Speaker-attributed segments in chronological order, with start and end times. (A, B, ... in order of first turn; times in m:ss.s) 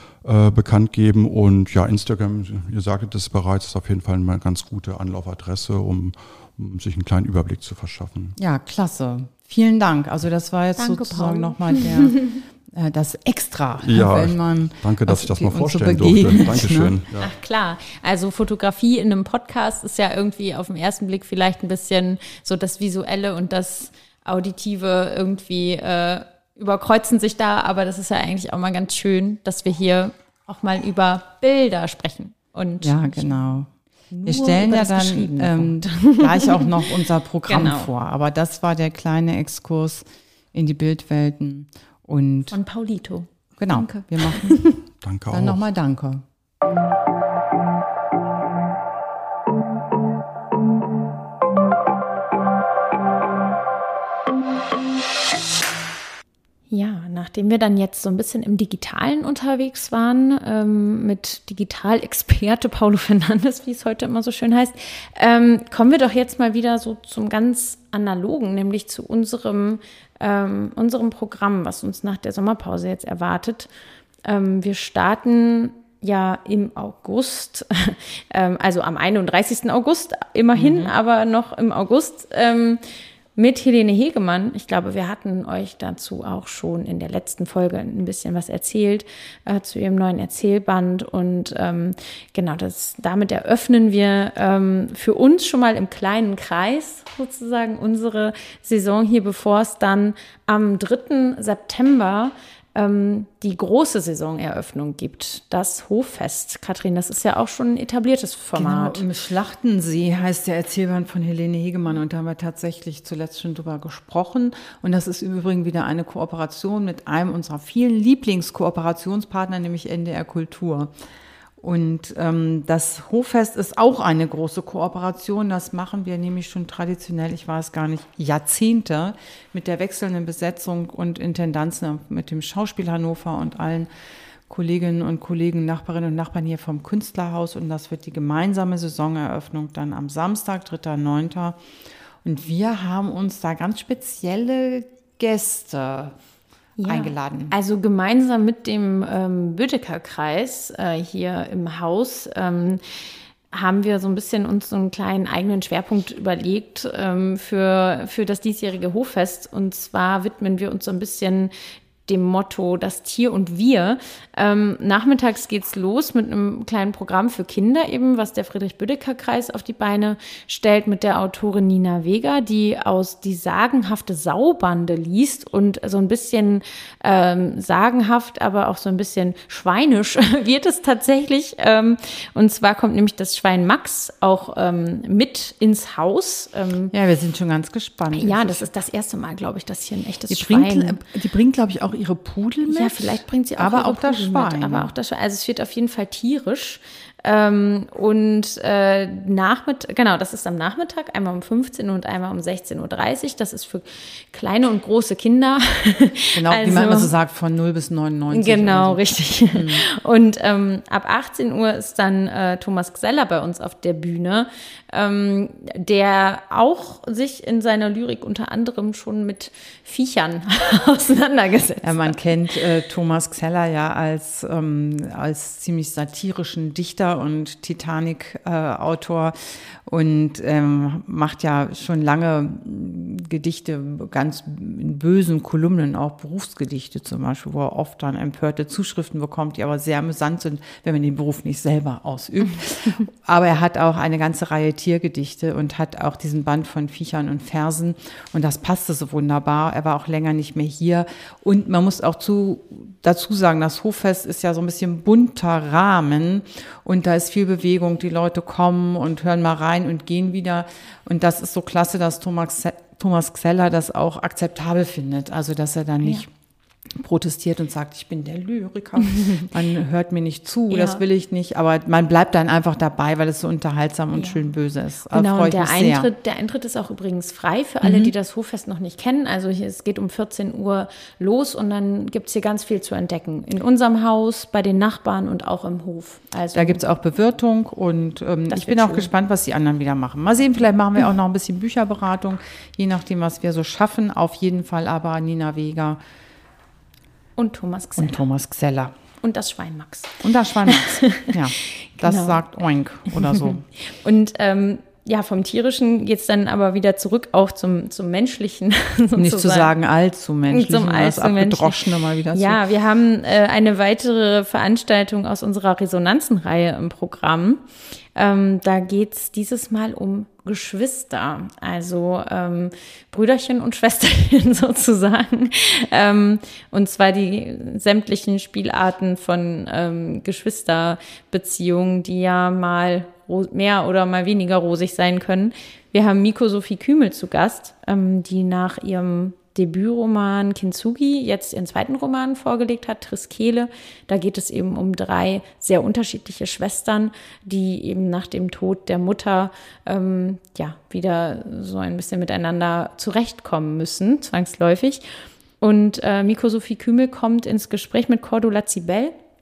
0:00.2-0:08.4 A
0:08.4-0:12.2 B
0:10.8-0:12.4 C
0:12.7-0:17.0 B
0:13.8-0:17.3 A
0:17.2-0:33.4 C
0:32.8-0:33.7 B
0:34.1-0:36.8 C
0:34.2-0:42.6 B
0:37.5-0:37.9 C
0:42.5-0:44.8 C
0:43.6-0:44.6 B
0:45.0-0:45.6 A
0:45.3-0:46.2 B
0:56.7-1:13.7 C
1:14.2-1:22.8 C
1:20.6-1:20.9 B
1:23.4-1:49.0 C
1:48.6-2:00.9 B
2:01.6-2:13.9 B
2:14.5-2:21.6 B
2:22.2-2:26.2 B
2:26.8-2:32.8 C
2:26.8-2:27.5 B
2:33.5-2:41.5 C
2:42.1-3:06.9 C
3:06.9-3:08.7 B
3:08.1-3:11.0 C
3:10.3-3:14.9 B
3:12.7-3:27.1 C
3:26.3-3:29.8 B
3:28.3-3:42.2 C
3:41.8-4:26.3 B
4:27.0-4:36.1 B
4:30.7-4:31.0 C
4:34.2-4:34.4 C
4:35.1-4:46.8 C
4:37.8-4:38.1 B
4:46.5-4:56.0 B
4:48.5-4:49.1 C
4:57.4-4:58.2 C
4:58.0-4:59.0 B
4:59.2-5:02.4 C
5:00.2-5:03.6 B
5:03.1-5:09.7 C
5:09.2-5:12.6 B
5:10.5-5:55.0 C
5:55.6-5:59.2 C